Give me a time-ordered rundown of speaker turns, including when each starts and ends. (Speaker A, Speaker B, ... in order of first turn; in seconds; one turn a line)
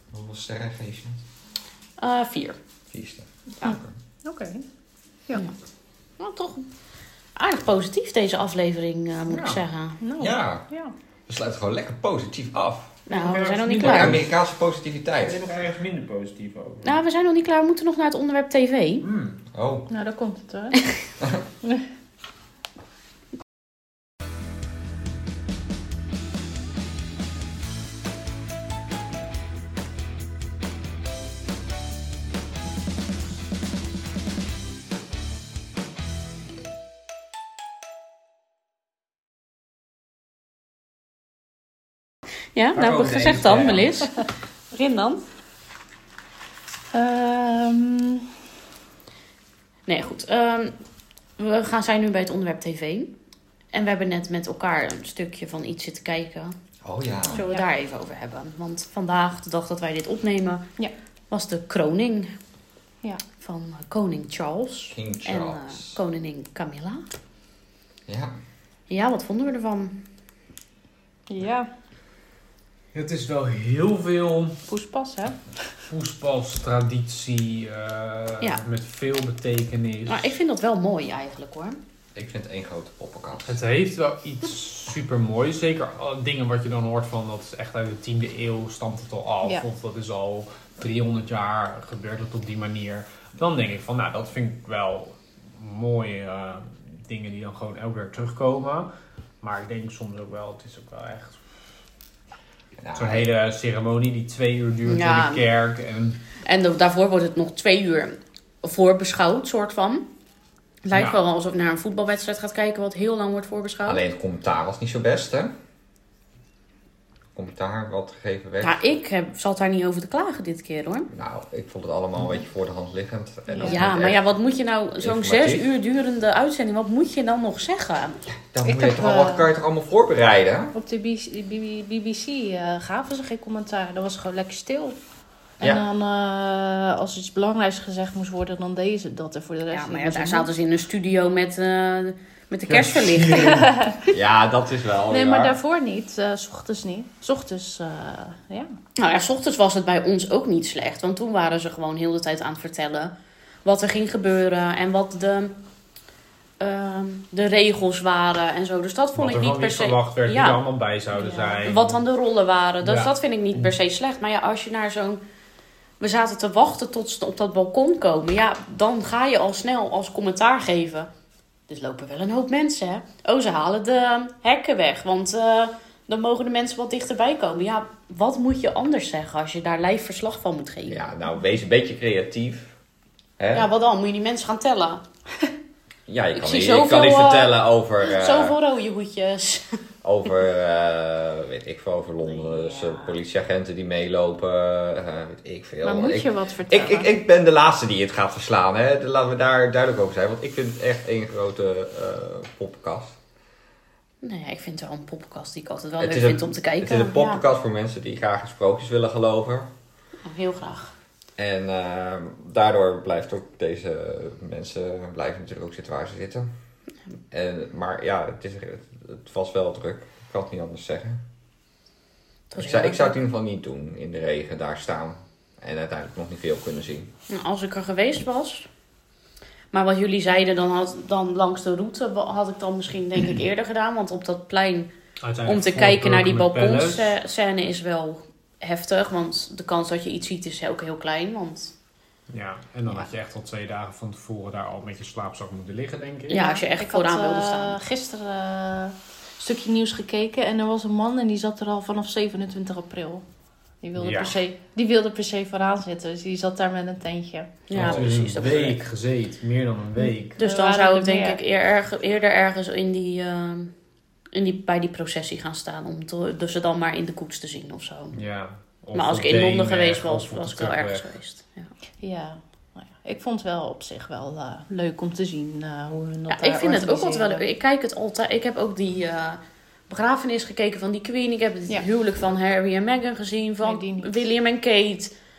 Speaker A: 0.1-1.2
Speaker B: 2.0-2.6
Speaker A: 2.9-3.9
Speaker C: 3.6-4.6
Speaker B: 6.2-6.7
Speaker B: 7.3-10.0
Speaker D: 9.3-9.6
Speaker C: 10.0-10.9
Speaker A: 10.2-10.7
Speaker A: 11.3-13.0
Speaker B: 13.1-14.2
Speaker D: 13.1-14.3
Speaker A: 13.8-15.4
Speaker D: 15.2-17.0
Speaker B: 16.8-19.1
Speaker D: 19.0-19.4
Speaker A: 19.5-19.9
Speaker C: 19.9-20.8
Speaker B: 42.5-45.2
Speaker D: 42.7-43.9
Speaker C: 46.9-48.3
Speaker B: 49.9-50.8
Speaker B: 51.4-53.1
Speaker B: 53.7-56.5
Speaker A: 56.8-57.4
Speaker C: 57.3-57.6
Speaker B: 57.3-60.6
Speaker B: 61.3-62.3
Speaker B: 63.4-67.0
Speaker A: 64.9-66.0
Speaker A: 68.1-68.3
Speaker B: 68.9-70.0
Speaker C: 71.3-71.7
Speaker D: 72.9-74.6
Speaker C: 74.7-75.5
Speaker D: 75.9-80.3
Speaker B: 80.1-81.8
Speaker A: 82.1-83.6
Speaker D: 83.4-101.5
Speaker A: 102.8-103.3
Speaker D: 102.9-106.2
Speaker B: 104.8-105.4
Speaker B: 106.4-110.0
Speaker B: 110.8-114.0
Speaker D: 110.9-111.2
Speaker A: 113.8-115.5
Speaker A: 117.3-118.8
Speaker B: 118.6-121.1
Speaker A: 121.1-124.2
Speaker C: 123.5-123.8
Speaker B: 123.6-128.3
Speaker A: 125.0-125.6
Speaker A: 128.3-130.7
Speaker C: 128.6-129.5
Speaker C: 130.7-134.9
Speaker C: 135.6-140.5
Speaker B: 139.7-143.6
Speaker D: 142.7-143.7
Speaker C: 143.3-144.1
Speaker A: 144.1-145.6
Speaker C: 145.1-148.8
Speaker B: 149.0-153.1
Speaker B: 153.6-155.6
Speaker B: 156.6-160.6
Speaker D: 159.1-162.0
Speaker C: 161.2-161.6
Speaker B: 161.6-165.2
Speaker D: 162.8-163.7
Speaker B: 166.0-171.1
Speaker B: 171.7-181.1
Speaker A: 180.9-182.7
Speaker A: 183.4-183.7
Speaker B: 183.5-185.0
Speaker A: 186.1-188.6
Speaker B: 186.3-189.8
Speaker A: 190.0-203.2
Speaker C: 192.4-193.1
Speaker C: 195.8-197.1
Speaker B: 204.2-207.4
Speaker A: 206.0-209.7
Speaker B: 210.2-210.9
Speaker A: 211.4-216.5
Speaker A: 217.3-221.2
Speaker B: 222.5-223.1
Speaker A: 222.6-227.1
Speaker B: 227.3-228.7
Speaker B: 229.7-234.9
Speaker D: 235.2-237.2
Speaker B: 235.4-241.7
Speaker D: 242.3-246.4
Speaker B: 246.3-247.8
Speaker C: 246.3-253.2
Speaker C: 253.8-257.6
Speaker D: 254.0-254.4
Speaker B: 257.7-258.8
Speaker D: 257.7-260.4
Speaker C: 260.4-261.4
Speaker B: 260.4-263.7
Speaker B: 264.3-268.2
Speaker D: 268.1-271.1
Speaker B: 268.9-271.7
Speaker C: 272.0-277.4
Speaker B: 276.3-285.1
Speaker C: 283.6-284.1